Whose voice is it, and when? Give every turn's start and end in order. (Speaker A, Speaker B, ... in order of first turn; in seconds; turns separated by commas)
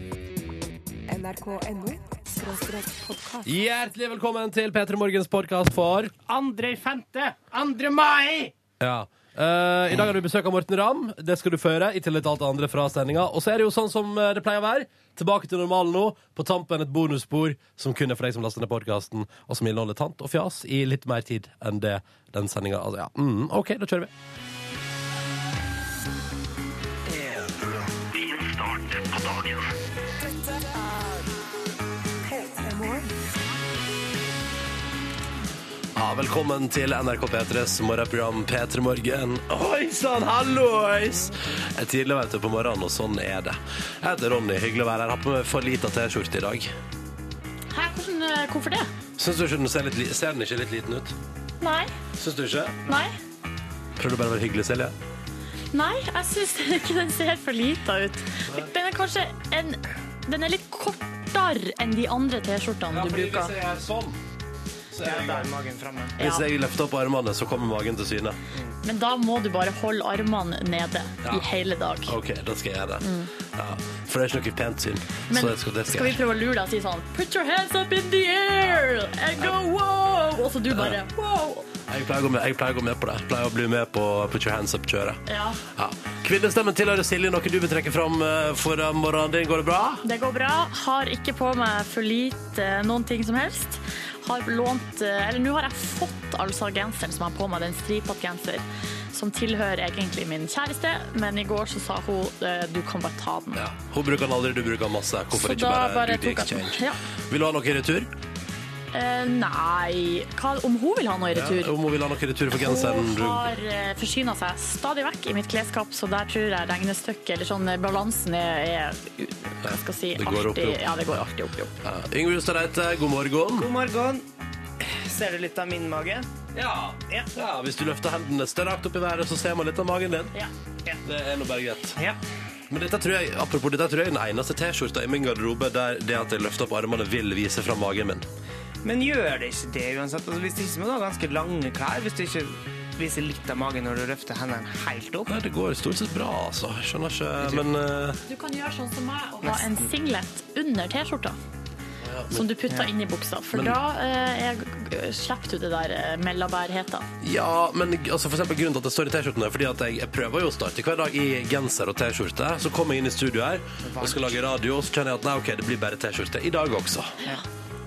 Speaker A: 1.1-3.5, Speaker B: 3.5-6.1, Speaker C: 6.3-8.5, Speaker B: 8.8-24.1, Speaker B: 28.3-29.6, Speaker A: 32.6-33.1, Speaker B: 35.9-46.7, Speaker D: 47.7-48.9, Speaker B: 49.2-51.1, Speaker D: 51.6-51.9, Speaker B: 52.1-52.8, Speaker D: 52.9-53.1, Speaker B: 54.0-55.0, Speaker D: 55.7-63.5, Speaker B: 62.9-64.2, Speaker B: 64.9-65.5, Speaker C: 65.0-66.2, Speaker B: 66.2-68.4, Speaker D: 66.2-66.5, Speaker D: 68.8-72.2, Speaker B: 72.0-76.2, Speaker D: 73.0-73.3, Speaker D: 75.3-81.6, Speaker B: 80.7-81.0, Speaker B: 81.9-85.2, Speaker D: 85.3-85.6, Speaker B: 85.7-90.0, Speaker D: 90.0-103.6, Speaker B: 103.5-108.1, Speaker D: 105.3-107.0, Speaker D: 108.9-111.7, Speaker B: 111.3-113.5, Speaker D: 112.5-121.7, Speaker B: 119.6-121.2, Speaker B: 121.8-123.7, Speaker C: 123.5-124.2, Speaker C: 124.8-126.3, Speaker B: 126.5-130.3, Speaker B: 131.0-132.0, Speaker B: 132.7-138.2, Speaker C: 138.8-145.3, Speaker B: 145.2-148.2, Speaker D: 148.3-151.4, Speaker C: 149.4-149.9, Speaker B: 152.0-152.4, Speaker D: 152.3-157.1, Speaker B: 153.5-153.8, Speaker B: 157.2-167.2, Speaker C: 163.8-164.3